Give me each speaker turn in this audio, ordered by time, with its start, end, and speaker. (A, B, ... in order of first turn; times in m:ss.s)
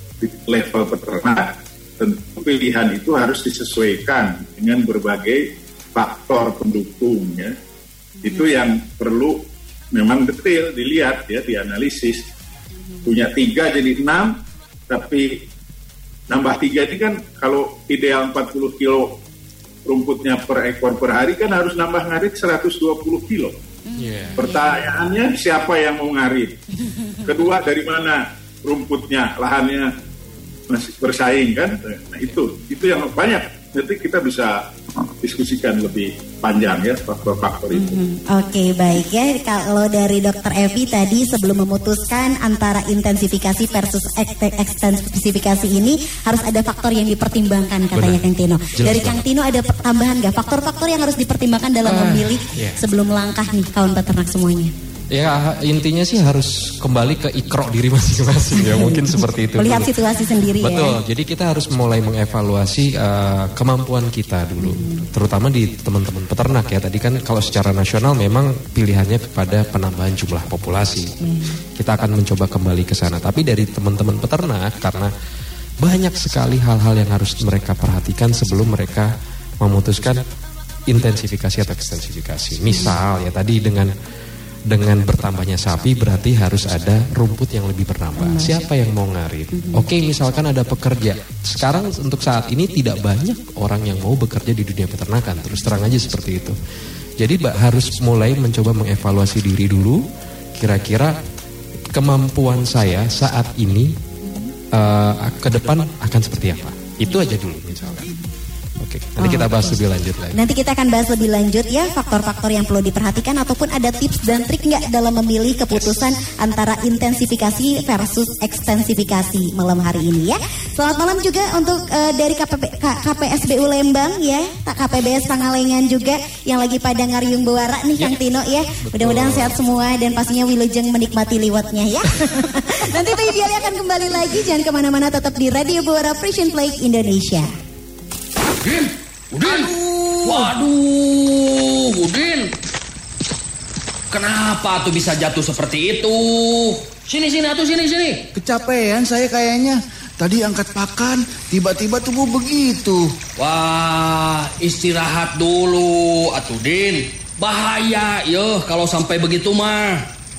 0:00.2-0:05.4 A
0:06.0-0:07.5 A
0:08.2-0:09.4 A
0:09.9-0:12.2 A
0:13.0-0:14.3 A
0:14.9-0:15.4 A
0:16.3-0:19.1 A
0:19.9-0:23.5 A
0:23.9-0:24.9 B
0:24.0-0:24.5 C
0:24.4-0:26.6 A
0:27.2-0:29.9 A
0:30.7-0:38.0 A
0:37.7-0:54.7 B
0:47.9-0:48.2 C
0:48.8-0:49.2 C
0:51.8-0:52.8 C
0:55.1-1:11.1 C
0:58.6-1:01.0 B
1:04.6-1:05.0 B
1:11.2-1:11.6 B
1:11.8-1:15.1 C
1:15.8-1:20.2 C
1:20.9-1:23.9 C
1:22.7-1:23.0 B
1:24.7-1:36.6 C
1:28.2-1:28.6 B
1:29.5-1:29.8 B
1:37.2-1:40.0 C
1:40.6-1:41.2 C
1:41.9-1:44.0 C
1:44.7-1:48.1 C
1:48.8-1:50.4 C
1:49.2-1:49.7 B
1:50.3-2:17.5 B
2:08.9-2:09.5 C
2:18.6-2:22.5 D
2:24.1-2:28.3 D
2:28.4-2:33.1 E
2:33.4-2:40.1 D